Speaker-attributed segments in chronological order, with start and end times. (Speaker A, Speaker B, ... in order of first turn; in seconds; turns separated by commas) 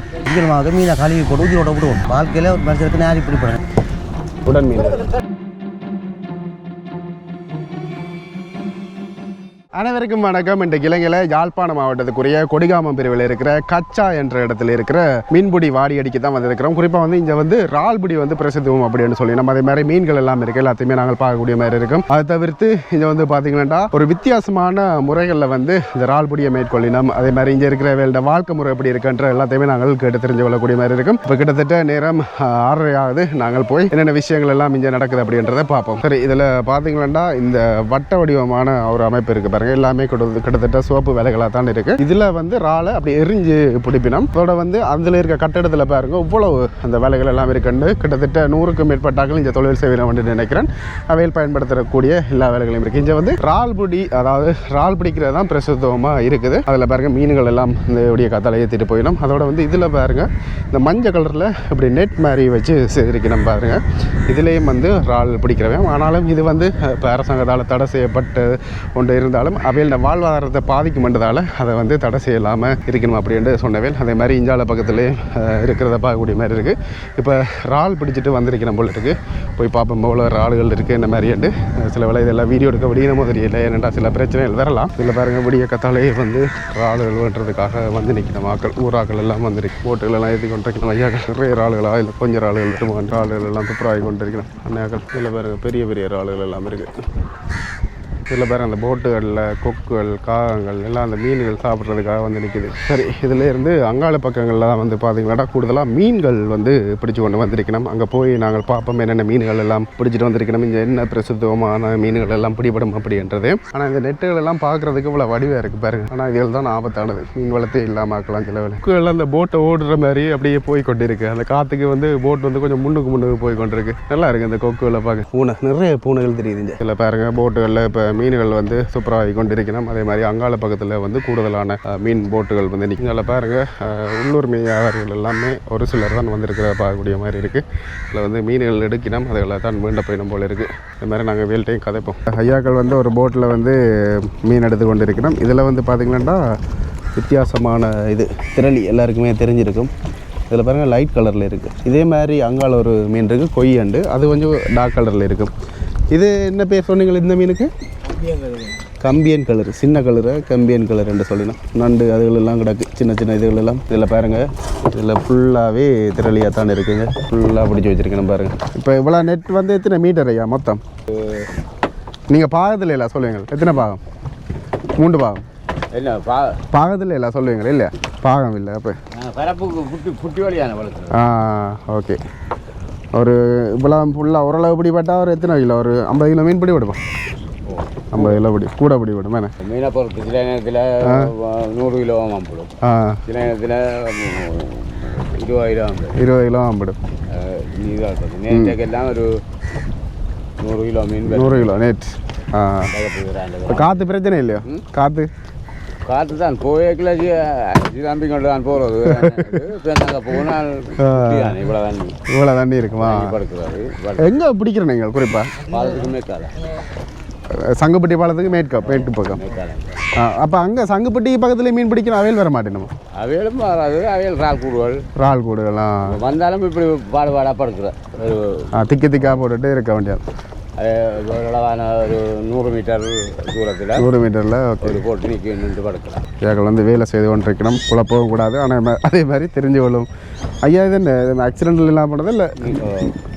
Speaker A: 0.2-3.6, Speaker B: 4.4-5.1, Speaker B: 9.7-96.9, Speaker B: 98.3-146.4, Speaker B: 147.1-149.9, Speaker B: 150.5-155.5, Speaker B: 156.1-157.7, Speaker B: 159.0-170.8, Speaker B: 172.3-174.0, Speaker B: 175.0-175.4, Speaker C: 175.9-176.6, Speaker B: 176.7-179.0, Speaker C: 179.1-181.2, Speaker B: 181.1-182.2, Speaker B: 183.1-187.0, Speaker C: 187.7-188.3, Speaker B: 188.1-189.5, Speaker C: 189.6-192.7, Speaker B: 191.0-191.3, Speaker B: 192.8-193.2, Speaker C: 193.2-196.2, Speaker B: 196.1-197.0, Speaker C: 197.3-199.4, Speaker B: 198.5-198.8, Speaker C: 200.6-201.7, Speaker B: 201.3-202.9, Speaker C: 202.9-204.0, Speaker B: 203.7-205.3, Speaker C: 206.1-212.2, Speaker B: 209.0-209.6, Speaker B: 211.0-211.6, Speaker B: 212.3-213.3, Speaker C: 213.0-214.3, Speaker B: 214.2-215.7, Speaker C: 215.6-216.7, Speaker B: 217.5-219.4, Speaker C: 218.8-220.0, Speaker B: 220.1-222.9, Speaker C: 223.1-225.0, Speaker B: 225.2-226.2, Speaker C: 226.1-228.7, Speaker B: 228.7-230.2, Speaker C: 230.8-234.1, Speaker B: 233.9-235.0, Speaker C: 234.8-236.3, Speaker B: 236.4-240.1, Speaker B: 240.6-242.8, Speaker C: 242.6-243.1